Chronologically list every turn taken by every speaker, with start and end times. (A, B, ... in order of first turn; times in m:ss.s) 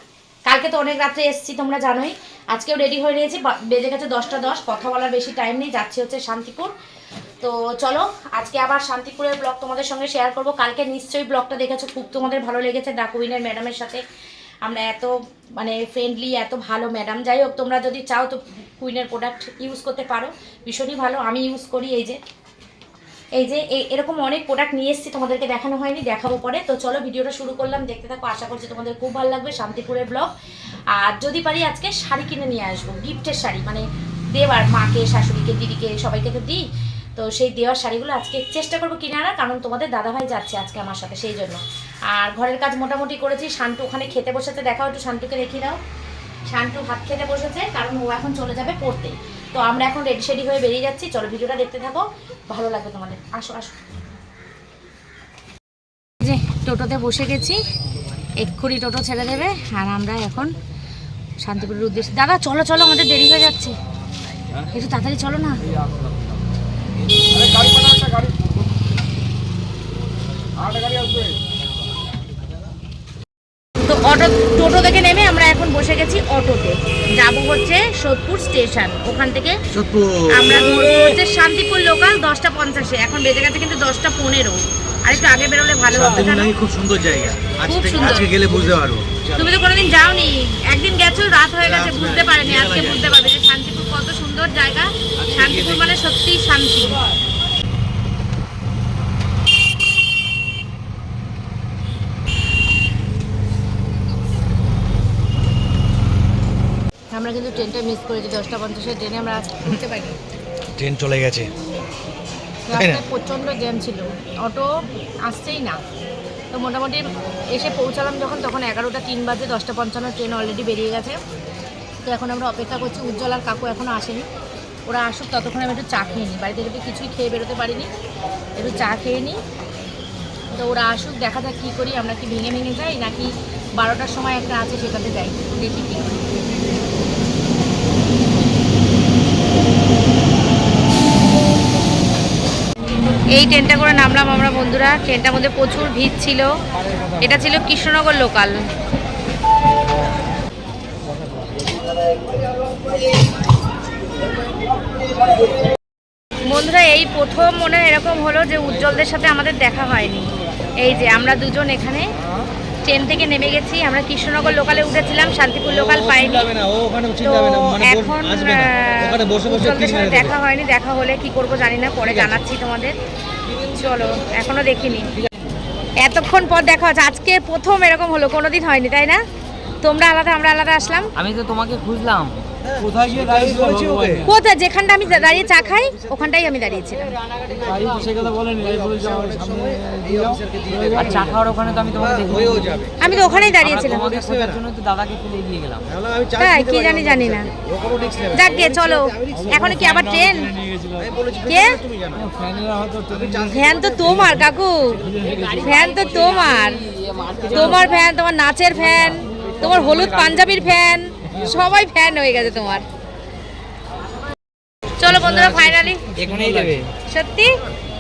0:00.5-0:06.7 A
0:07.4-0:14.0 A
0:14.6-0:22.2 A
0:23.4-0:30.3 A
0:30.9-0:36.6 A
0:37.2-0:45.8 A
0:46.5-0:53.8 A
0:56.2-0:57.6 A
0:58.4-1:00.5 A
1:01.4-1:03.8 A
1:04.7-1:05.6 A
1:07.4-1:08.0 B
1:13.9-1:19.6 A
1:19.7-1:21.0 B
1:20.3-1:26.5 A
1:25.9-1:29.5 B
1:27.6-1:28.3 A
1:29.4-1:37.0 A
1:31.6-1:33.1 B
1:35.2-1:36.0 B
1:47.1-1:50.2 A
1:50.8-1:51.5 B
1:52.7-1:55.8 A
1:52.7-1:53.0 B
1:56.5-2:01.2 A
2:02.1-2:04.3 A
2:04.9-2:07.9 A
2:08.6-2:09.4 A
2:10.5-2:16.3 A
2:23.3-2:26.5 A
2:27.2-2:28.6 A
2:36.5-2:42.1 A
2:42.8-2:46.5 A
2:45.7-2:50.3 B
2:47.2-2:53.0 A
2:53.7-2:55.1 A
2:56.0-2:59.2 A
2:59.8-3:01.1 A
3:01.2-3:04.3 C
3:02.6-3:04.3 B
3:04.3-3:07.1 A
3:07.5-3:11.4 B
3:10.9-3:15.9 C
3:11.9-3:14.6 B
3:13.0-3:14.2 A
3:15.9-3:20.0 B
3:16.4-3:17.5 A
3:18.3-3:20.5 A
3:20.9-3:22.4 B
3:21.5-3:21.8 A
3:23.0-3:24.5 B
3:23.5-3:25.0 A
3:25.0-3:25.9 B
3:25.6-3:26.8 A
3:27.2-3:27.8 C
3:27.5-3:32.9 A
3:35.0-3:36.0 A
3:35.1-3:35.6 B
3:36.2-3:36.9 C
3:36.2-3:36.7 B
3:37.1-3:37.5 A